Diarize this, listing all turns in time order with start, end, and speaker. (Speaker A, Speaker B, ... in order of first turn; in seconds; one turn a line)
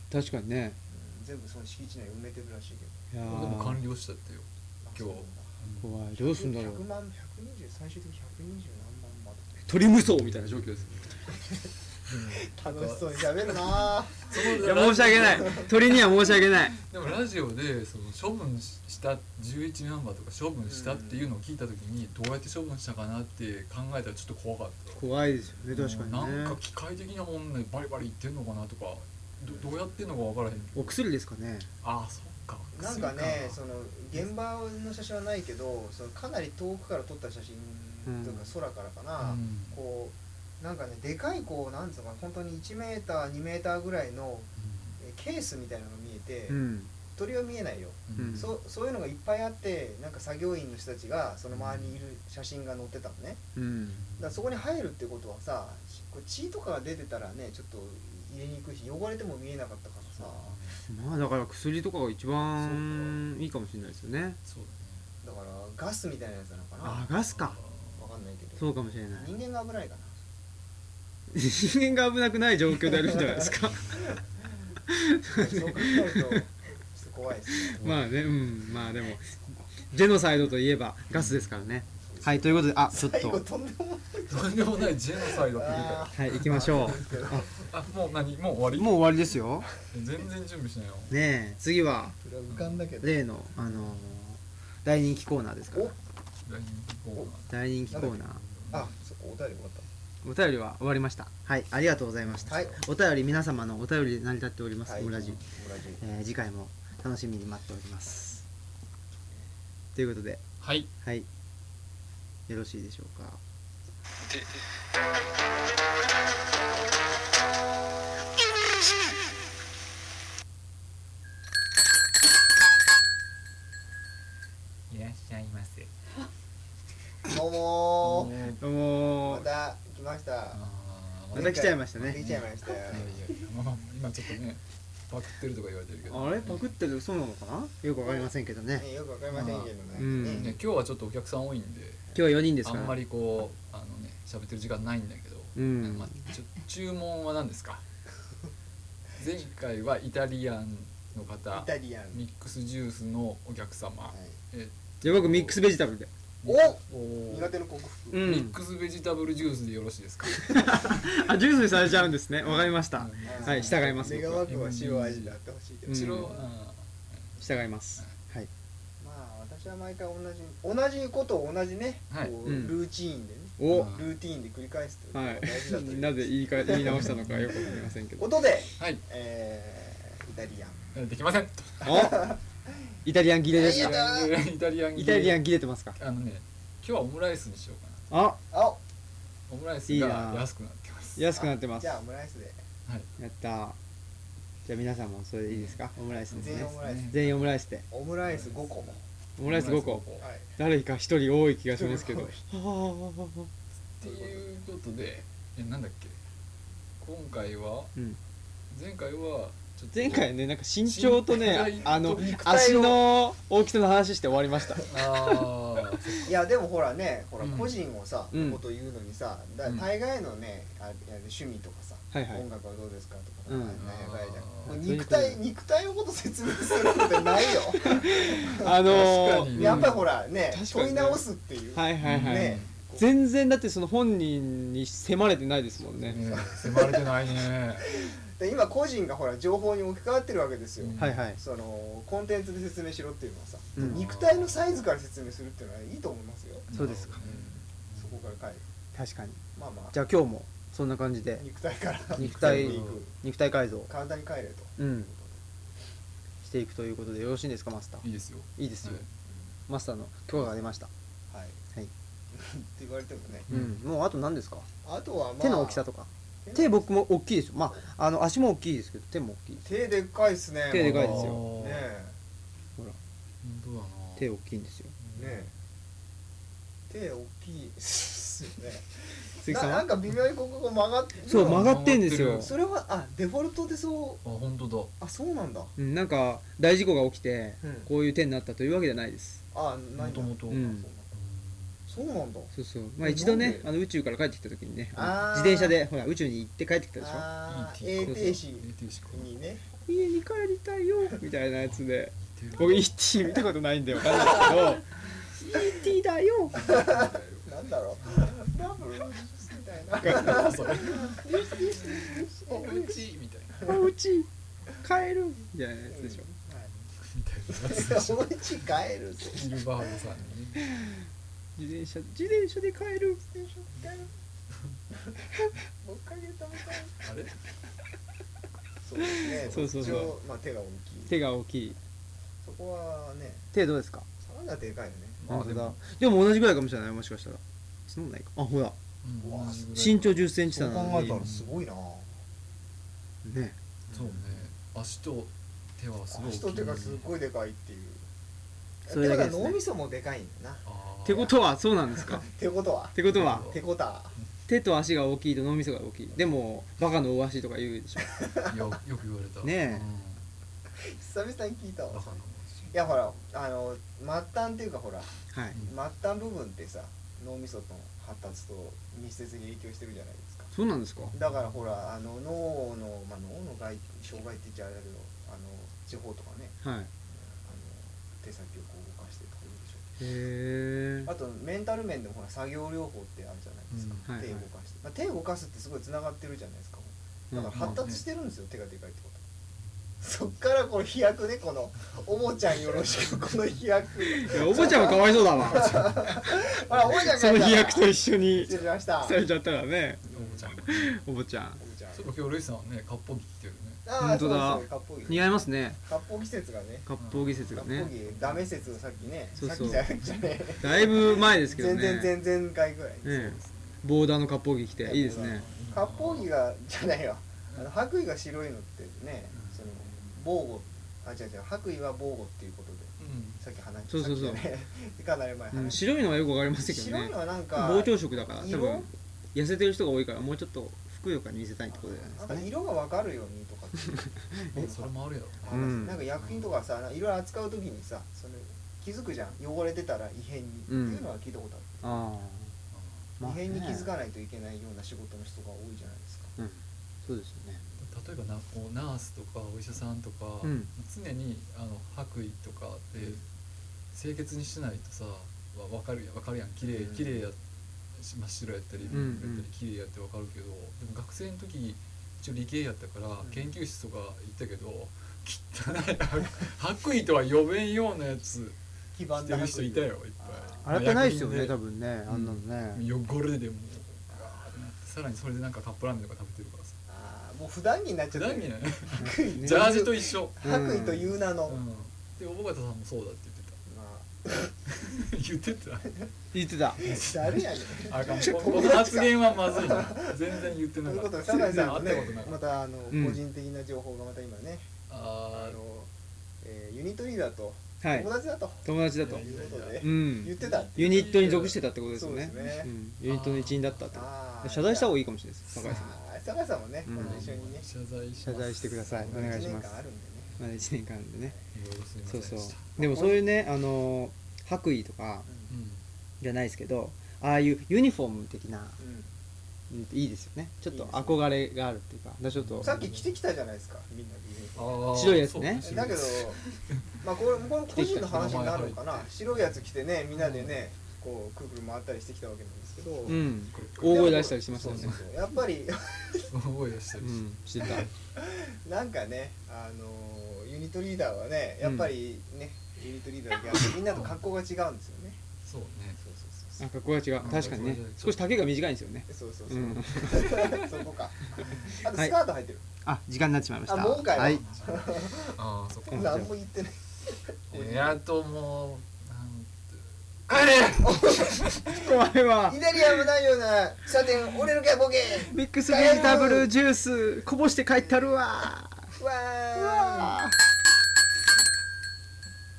Speaker A: 0.1-0.8
Speaker B: 0.9-3.0
Speaker A: 3.1-3.8
Speaker C: 3.2-6.0
Speaker B: 4.8-5.5
Speaker A: 5.8-6.8
Speaker B: 6.2-9.7
Speaker A: 9.7-11.1
Speaker C: 10.1-11.3
Speaker C: 12.1-25.1
Speaker B: 12.3-15.7
Speaker A: 14.5-16.8
Speaker B: 20.7-21.2
Speaker A: 25.0-26.6
Speaker C: 25.7-31.0
Speaker A: 30.8-31.7
Speaker C: 31.8-33.6
Speaker B: 32.8-44.5
Speaker A: 38.1-38.5
Speaker C: 39.2-39.8
Speaker C: 44.6-45.0
Speaker B: 45.0-46.6
Speaker A: 46.5-46.9
Speaker B: 47.1-53.4
Speaker C: 48.1-48.5
Speaker A: 48.2-48.5
Speaker C: 51.5-52.0
Speaker A: 53.6-54.0
Speaker C: 53.9-54.5
Speaker B: 54.2-60.6
Speaker C: 60.1-60.8
Speaker A: 60.9-64.4
Speaker C: 62.6-63.3
Speaker C: 64.5-65.1
Speaker B: 65.2-67.1
Speaker A: 66.8-67.6
Speaker C: 67.3-68.1
Speaker B: 68.0-70.2
Speaker A: 68.6-69.3
Speaker A: 71.3-74.0
Speaker C: 73.6-74.3
Speaker A: 74.9-76.4
Speaker B: 75.3-77.8
Speaker A: 77.7-83.4
Speaker C: 77.8-78.6
Speaker C: 81.1-81.5
Speaker B: 82.1-87.6
Speaker C: 84.3-87.0
Speaker A: 86.2-87.5
Speaker C: 87.6-91.2
Speaker A: 88.7-89.7
Speaker A: 91.1-92.2
Speaker B: 92.2-93.2
Speaker C: 92.5-92.8
Speaker A: 93.0-96.0
Speaker C: 96.5-98.9
Speaker A: 97.5-98.4
Speaker B: 97.9-99.9
Speaker A: 100.2-105.4
Speaker C: 102.3-102.7
Speaker B: 102.5-102.8
Speaker B: 104.8-106.0
Speaker C: 105.2-105.5
Speaker A: 106.0-108.4
Speaker A: 110.0-110.4
Speaker C: 110.6-110.9
Speaker A: 111.0-111.3
Speaker A: 112.5-113.4
Speaker C: 124.9-125.9
Speaker B: 127.2-128.5
Speaker C: 128.0-128.6
Speaker A: 128.6-129.5
Speaker B: 129.2-130.6
Speaker C: 130.5-136.7
Speaker A: 131.3-132.3
Speaker B: 131.3-133.2
Speaker A: 136.1-140.6
Speaker B: 138.8-140.5
Speaker C: 140.3-147.8
Speaker A: 142.2-143.0
Speaker A: 145.6-146.2
Speaker C: 149.2-155.6
Speaker B: 151.5-152.2
Speaker B: 154.1-154.4
Speaker A: 155.0-156.5
Speaker C: 156.4-157.6
Speaker B: 156.5-156.7
Speaker B: 157.3-158.3
Speaker A: 158.1-158.6
Speaker C: 158.2-161.0
Speaker A: 160.3-164.4
Speaker C: 161.7-168.2
Speaker B: 163.2-166.5
Speaker A: 165.9-166.3
Speaker A: 167.4-168.5
Speaker B: 169.0-177.1
Speaker C: 172.1-172.4
Speaker A: 172.4-172.8
Speaker A: 173.6-174.0
Speaker C: 173.7-174.1
Speaker A: 175.1-178.3
Speaker C: 176.8-177.8
Speaker B: 178.2-180.8
Speaker C: 180.9-182.1
Speaker A: 181.8-182.3
Speaker B: 181.8-182.4
Speaker A: 183.1-184.1
Speaker B: 183.5-184.3
Speaker C: 183.6-185.4
Speaker A: 184.9-186.0
Speaker C: 186.0-188.1
Speaker A: 188.1-188.4
Speaker B: 188.5-188.8
Speaker C: 189.5-191.3
Speaker A: 189.9-190.5
Speaker A: 191.2-192.0
Speaker B: 191.3-192.6
Speaker A: 193.2-193.8
Speaker A: 194.7-197.8
Speaker C: 195.5-197.5
Speaker B: 196.3-197.2
Speaker B: 197.9-199.0
Speaker C: 198.2-200.3
Speaker A: 199.4-203.5
Speaker B: 200.2-200.5
Speaker B: 201.7-202.4
Speaker C: 204.0-206.2
Speaker B: 204.0-204.4
Speaker C: 207.0-207.9
Speaker C: 208.7-212.2
Speaker A: 209.9-216.2
Speaker B: 211.9-213.1
Speaker C: 214.8-216.3
Speaker B: 216.2-233.1
Speaker C: 217.4-217.8
Speaker A: 218.3-218.6
Speaker A: 222.1-222.4
Speaker A: 223.5-223.8
Speaker C: 223.8-224.8
Speaker A: 224.7-225.4
Speaker A: 226.9-231.2
Speaker C: 228.8-230.0
Speaker A: 231.7-236.2
Speaker C: 232.0-232.7
Speaker C: 236.0-237.9
Speaker B: 236.2-248.7
Speaker C: 240.8-241.2
Speaker A: 241.0-241.4
Speaker A: 243.8-244.0
Speaker C: 243.8-244.6
Speaker C: 246.7-248.4
Speaker A: 246.7-247.2
Speaker A: 248.9-249.4
Speaker B: 249.6-250.0
Speaker A: 249.9-251.4
Speaker B: 251.4-253.1
Speaker C: 252.2-253.0
Speaker A: 252.2-253.9
Speaker B: 253.9-255.4
Speaker A: 254.8-255.1
Speaker A: 256.4-258.1
Speaker C: 258.0-259.1
Speaker A: 258.6-259.1
Speaker A: 259.7-260.9
Speaker B: 261.3-261.6
Speaker B: 262.3-263.5
Speaker C: 263.5-263.8
Speaker A: 263.5-264.7
Speaker B: 264.8-265.9
Speaker A: 265.4-269.6
Speaker B: 266.4-266.9
Speaker B: 269.6-272.2
Speaker A: 270.7-271.4
Speaker C: 270.7-271.9
Speaker C: 273.4-274.3
Speaker A: 274.2-274.9
Speaker C: 275.0-275.6
Speaker B: 275.1-275.5
Speaker B: 276.9-284.2
Speaker A: 279.4-279.9
Speaker A: 281.3-282.5
Speaker C: 281.3-282.5
Speaker C: 284.2-284.9
Speaker B: 285.0-285.7
Speaker A: 285.8-289.4
Speaker B: 287.6-287.9
Speaker B: 289.5-291.1
Speaker C: 290.0-291.8
Speaker A: 290.5-290.9
Speaker B: 291.9-293.7
Speaker A: 292.5-297.3
Speaker B: 294.9-295.8
Speaker B: 297.0-299.7
Speaker C: 297.5-299.3
Speaker A: 298.1-298.4
Speaker A: 299.9-306.6
Speaker C: 301.6-303.0
Speaker C: 304.3-304.7
Speaker C: 306.5-308.5
Speaker B: 306.6-313.1
Speaker C: 310.0-313.7
Speaker A: 313.7-314.3
Speaker A: 314.8-316.2
Speaker B: 315.9-316.9
Speaker C: 317.0-318.7
Speaker B: 317.5-319.5
Speaker C: 319.2-320.7
Speaker A: 321.6-323.2
Speaker B: 323.3-324.1
Speaker B: 325.8-327.0
Speaker C: 327.0-327.3
Speaker B: 328.8-331.1
Speaker A: 329.2-330.2
Speaker C: 329.2-330.1
Speaker A: 331.1-331.8
Speaker B: 332.4-333.5
Speaker A: 333.5-334.1
Speaker B: 334.2-335.3
Speaker C: 335.2-335.8
Speaker A: 335.3-338.8
Speaker C: 339.0-340.4
Speaker B: 339.2-339.7
Speaker A: 339.7-341.3
Speaker B: 340.5-342.2
Speaker C: 341.0-341.6
Speaker A: 343.2-343.6
Speaker B: 343.9-344.2
Speaker C: 343.9-347.1
Speaker B: 346.1-348.1
Speaker B: 348.9-350.6
Speaker A: 348.9-349.6
Speaker C: 350.6-351.3
Speaker A: 351.1-352.3
Speaker B: 351.9-354.1
Speaker A: 352.9-353.5
Speaker C: 353.1-353.6
Speaker A: 354.5-358.2
Speaker B: 358.2-358.5
Speaker C: 358.4-360.3
Speaker A: 359.4-359.9
Speaker B: 360.8-370.5
Speaker C: 361.9-362.8
Speaker A: 365.3-365.6
Speaker A: 370.5-371.1
Speaker B: 371.1-376.6
Speaker A: 376.6-376.9
Speaker B: 377.1-379.9
Speaker A: 380.0-381.1
Speaker B: 381.0-389.2
Speaker C: 383.7-384.2
Speaker A: 384.1-384.5
Speaker A: 387.3-387.8
Speaker C: 387.6-388.0
Speaker B: 390.0-399.2
Speaker A: 394.1-401.6
Speaker C: 395.6-396.0
Speaker C: 398.3-398.7
Speaker B: 400.1-400.5
Speaker C: 400.1-400.9
Speaker B: 401.6-402.1
Speaker C: 401.9-403.8
Speaker B: 403.9-405.3
Speaker A: 404.0-405.8
Speaker B: 405.9-406.9
Speaker A: 406.9-407.9
Speaker C: 407.0-408.5
Speaker B: 407.5-413.4
Speaker A: 409.4-409.9
Speaker A: 410.6-412.1
Speaker A: 413.0-415.5
Speaker C: 413.1-413.8
Speaker B: 414.8-425.9
Speaker C: 415.1-416.3
Speaker C: 419.3-419.9
Speaker C: 423.0-423.4
Speaker A: 423.9-424.5
Speaker A: 425.5-432.5
Speaker B: 426.6-428.9
Speaker B: 431.7-442.0
Speaker C: 434.5-435.6
Speaker A: 435.5-436.1
Speaker C: 436.2-436.6
Speaker A: 440.7-441.1
Speaker A: 441.8-442.6
Speaker C: 442.7-443.1
Speaker A: 443.2-443.9
Speaker B: 443.2-446.4
Speaker A: 446.4-447.6
Speaker C: 447.8-453.2
Speaker A: 450.4-450.7
Speaker C: 453.9-457.4
Speaker B: 456.6-457.2
Speaker C: 457.9-468.6
Speaker B: 458.8-459.1
Speaker A: 458.9-459.5
Speaker B: 463.2-463.5
Speaker B: 468.9-470.6
Speaker C: 469.1-476.8
Speaker A: 470.6-472.9
Speaker B: 476.9-481.6
Speaker C: 478.1-480.4
Speaker A: 479.0-479.7
Speaker A: 480.4-481.1
Speaker C: 481.5-483.6
Speaker B: 483.7-484.6
Speaker C: 484.7-486.0
Speaker A: 486.3-486.8
Speaker C: 486.8-492.5
Speaker B: 486.8-490.2
Speaker B: 490.8-494.7
Speaker A: 492.9-493.2
Speaker C: 494.9-495.6
Speaker B: 495.3-495.9
Speaker B: 496.4-501.3
Speaker A: 497.8-498.1
Speaker A: 498.6-499.3
Speaker C: 499.0-501.6
Speaker A: 499.8-506.0
Speaker B: 501.9-502.7
Speaker C: 503.0-503.9
Speaker B: 503.9-505.0
Speaker C: 505.5-506.0
Speaker B: 505.6-507.7
Speaker A: 506.9-507.3
Speaker C: 506.9-509.6
Speaker A: 508.2-509.8
Speaker B: 509.1-510.4
Speaker A: 510.4-511.4
Speaker C: 511.5-512.7
Speaker A: 512.1-515.3
Speaker B: 512.8-513.2
Speaker C: 515.5-515.8
Speaker A: 516.2-518.8
Speaker B: 518.8-519.1
Speaker A: 519.7-522.8
Speaker B: 520.7-521.2
Speaker C: 522.3-523.1
Speaker B: 522.6-524.9
Speaker C: 524.6-526.9
Speaker A: 524.9-525.7
Speaker B: 525.6-526.4
Speaker B: 527.0-533.2
Speaker A: 527.7-528.5
Speaker C: 528.1-529.6
Speaker C: 530.2-530.6
Speaker C: 533.0-535.0
Speaker A: 533.1-535.0
Speaker B: 533.8-536.3
Speaker C: 536.3-537.9
Speaker A: 537.0-537.9
Speaker B: 537.6-545.2
Speaker A: 541.6-541.9
Speaker C: 543.5-544.2
Speaker C: 545.5-546.0
Speaker B: 546.0-546.6
Speaker A: 546.6-550.5
Speaker C: 547.2-548.3
Speaker B: 549.1-552.6
Speaker C: 550.2-550.7
Speaker A: 551.9-552.2
Speaker A: 552.8-554.4
Speaker B: 553.7-555.4
Speaker C: 554.1-556.3
Speaker B: 555.9-558.0
Speaker A: 555.9-556.3
Speaker C: 557.5-561.7
Speaker B: 560.8-561.6
Speaker A: 561.6-562.8
Speaker B: 562.5-566.5
Speaker A: 565.3-569.0
Speaker B: 569.0-570.2
Speaker A: 569.5-570.4